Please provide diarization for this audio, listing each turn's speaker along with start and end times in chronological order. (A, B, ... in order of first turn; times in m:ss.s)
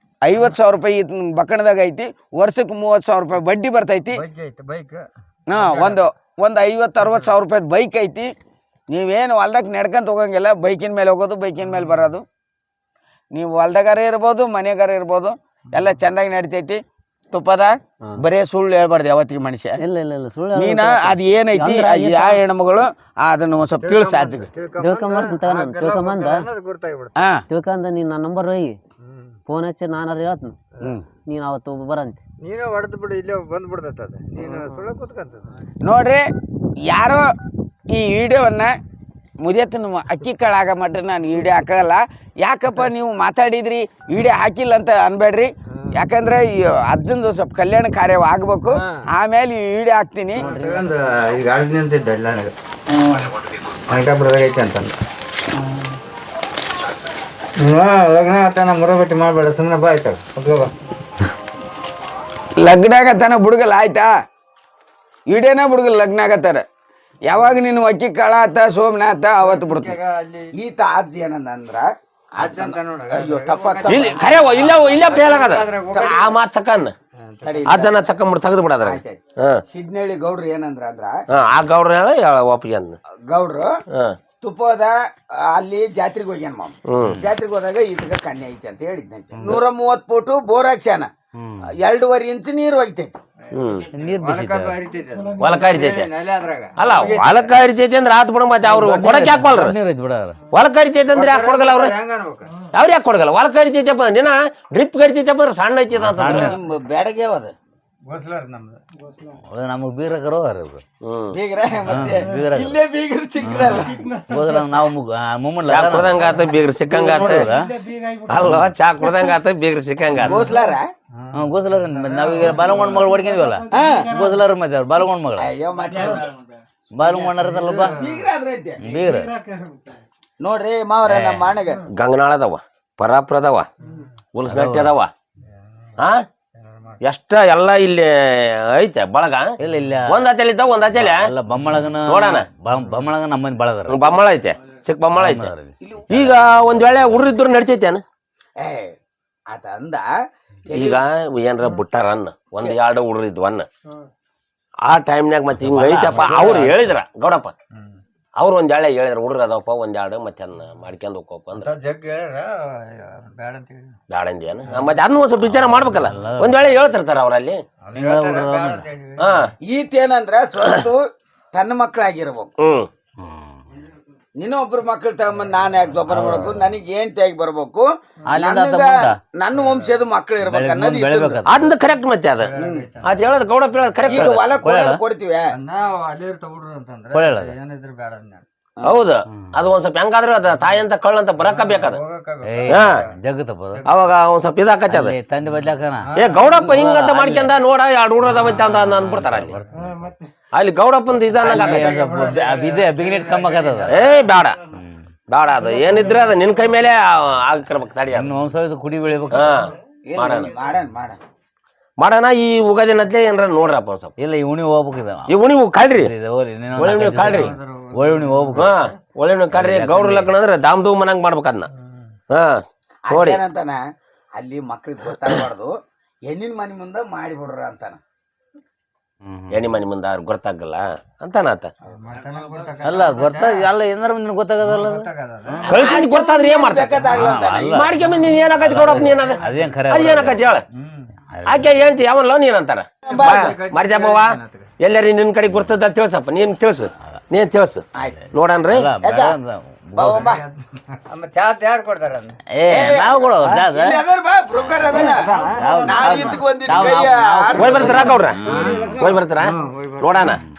0:00.2-0:04.2 A
0:04.1-0:06.0 B
0:05.5-0:08.3 A
0:07.0-0:07.3 B
0:08.9-0:12.2 A
0:11.6-0:12.1 B
0:13.3-0:16.8 A
0:17.3-0:19.8 A
0:19.8-0:22.4 C
0:20.6-0:24.5 A
0:23.8-0:27.2 B
0:24.8-0:26.4 C
0:27.2-0:27.4 A
0:27.5-0:28.8 C
0:29.0-0:29.4 B
0:29.5-0:30.6 C
0:31.2-0:32.2 C
0:32.4-0:35.6 B
0:34.4-0:34.8 C
0:35.8-0:36.2 A
0:36.9-0:37.3 A
0:37.9-0:38.7 A
0:39.4-0:50.4 A
0:48.7-0:49.0 B
0:50.3-0:53.3 B
0:50.4-0:50.9 C
0:53.9-0:55.0 B
0:57.6-1:00.7 B
1:02.6-1:04.1 A
1:05.3-1:06.6 A
1:07.3-1:09.9 A
1:09.4-1:10.5 B
1:10.6-1:11.9 A
1:12.4-1:16.3 B
1:12.4-1:15.0 A
1:13.9-1:16.9 D
1:15.9-1:16.2 A
1:17.2-1:17.7 B
1:17.4-1:17.9 A
1:17.6-1:19.6 D
1:18.8-1:21.2 A
1:21.3-1:23.0 D
1:23.3-1:23.7 A
1:23.9-1:24.2 D
1:24.4-1:25.0 A
1:25.5-1:31.1 A
1:26.9-1:27.2 D
1:31.7-1:33.2 A
1:33.5-1:33.9 D
1:33.9-1:34.8 E
1:34.0-1:37.6 B
1:35.4-1:36.1 D
1:36.8-1:39.7 D
1:38.6-1:40.4 E
1:40.5-1:41.9 D
1:41.1-1:42.5 B
1:42.7-1:46.5 D
1:45.9-1:46.5 E
1:46.3-1:47.5 A
1:48.1-1:48.8 B
1:49.5-1:50.8 E
1:51.0-1:51.4 D
1:51.3-1:54.2 A
1:51.8-1:52.8 E
1:53.6-1:57.7 E
1:55.6-2:00.4 D
1:57.0-1:57.4 A
1:58.4-1:58.7 E
2:00.2-2:00.9 A
2:01.1-2:03.0 B
2:01.3-2:05.5 E
2:03.7-2:04.1 A
2:05.4-2:06.3 A
2:07.0-2:08.0 E
2:07.1-2:08.2 B
2:07.8-2:08.9 A
2:08.8-2:09.3 E
2:10.4-2:11.8 A
2:11.0-2:11.5 E
2:11.9-2:13.7 D
2:14.3-2:15.1 D
2:14.4-2:14.9 E
2:16.6-2:17.0 B
2:17.0-2:19.5 D
2:19.6-2:20.2 E
2:20.1-2:21.2 D
2:20.9-2:24.0 E
2:22.0-2:22.4 D
2:23.9-2:25.5 D
2:25.1-2:25.7 E
2:25.8-2:26.4 A
2:26.1-2:28.0 D
2:28.6-2:28.9 A
2:29.5-2:30.1 A
2:30.7-2:33.7 D
2:30.7-2:31.0 A
2:34.8-2:37.5 D
2:35.6-2:36.9 E
2:38.4-2:41.7 D
2:41.5-2:44.0 B
2:44.1-2:47.6 D
2:44.6-2:45.0 B
2:45.5-2:46.8 E
2:47.8-2:49.4 B
2:47.9-2:48.8 E
2:49.2-2:49.5 D
2:49.6-2:52.5 A
2:52.6-2:52.9 D
2:53.2-2:53.5 E
2:54.4-3:01.4 A
2:56.1-2:56.7 E
2:58.3-2:59.2 E
2:59.5-3:00.0 B
3:00.4-3:01.8 E
3:01.4-3:02.5 D
3:02.4-3:03.3 B
3:02.6-3:02.8 A
3:03.0-3:04.5 D
3:04.0-3:05.5 A
3:04.1-3:05.0 E
3:05.5-3:08.4 B
3:07.1-3:07.5 E
3:08.8-3:12.0 D
3:11.4-3:13.1 B
3:12.4-3:13.8 E
3:12.7-3:13.0 D
3:13.7-3:14.0 B
3:13.8-3:15.1 D
3:14.9-3:16.1 E
3:16.2-3:16.7 B
3:16.2-3:19.6 D
3:16.7-3:17.5 E
3:18.3-3:19.9 B
3:18.3-3:19.9 E
3:20.5-3:22.2 D
3:21.4-3:24.3 B
3:21.4-3:21.9 A
3:21.7-3:24.0 E
3:23.9-3:24.6 D
3:24.7-3:25.0 E
3:25.3-3:28.4 D
3:28.1-3:29.6 E
3:29.3-3:30.5 D
3:30.1-3:31.2 A
3:32.0-3:34.1 D
3:34.2-3:35.3 E
3:35.3-3:36.1 D
3:35.9-3:38.7 E
3:36.8-3:37.5 D
3:37.1-3:38.7 B
3:38.6-3:41.7 D
3:39.5-3:40.3 E
3:42.3-3:43.4 D
3:43.1-3:43.8 A
3:44.4-3:45.7 A
3:46.3-3:48.0 A
3:49.2-3:49.6 E
3:49.5-3:51.7 D
3:51.9-3:53.7 B
3:52.8-3:55.6 E
3:54.6-3:55.7 B
3:55.7-4:00.6 D
3:55.7-3:57.7 A
3:57.1-4:00.4 E
3:58.2-3:59.7 B
4:00.7-4:01.1 B
4:01.3-4:01.9 E
4:01.4-4:08.9 D
4:03.0-4:03.5 A
4:03.0-4:04.7 B
4:08.7-4:10.3 E
4:09.0-4:09.4 A
4:10.0-4:10.4 A
4:10.0-4:12.4 B
4:12.5-4:14.0 E
4:12.7-4:18.7 A
4:14.9-4:16.4 B
4:15.0-4:18.9 E
4:17.6-4:20.4 D
4:18.4-4:20.4 B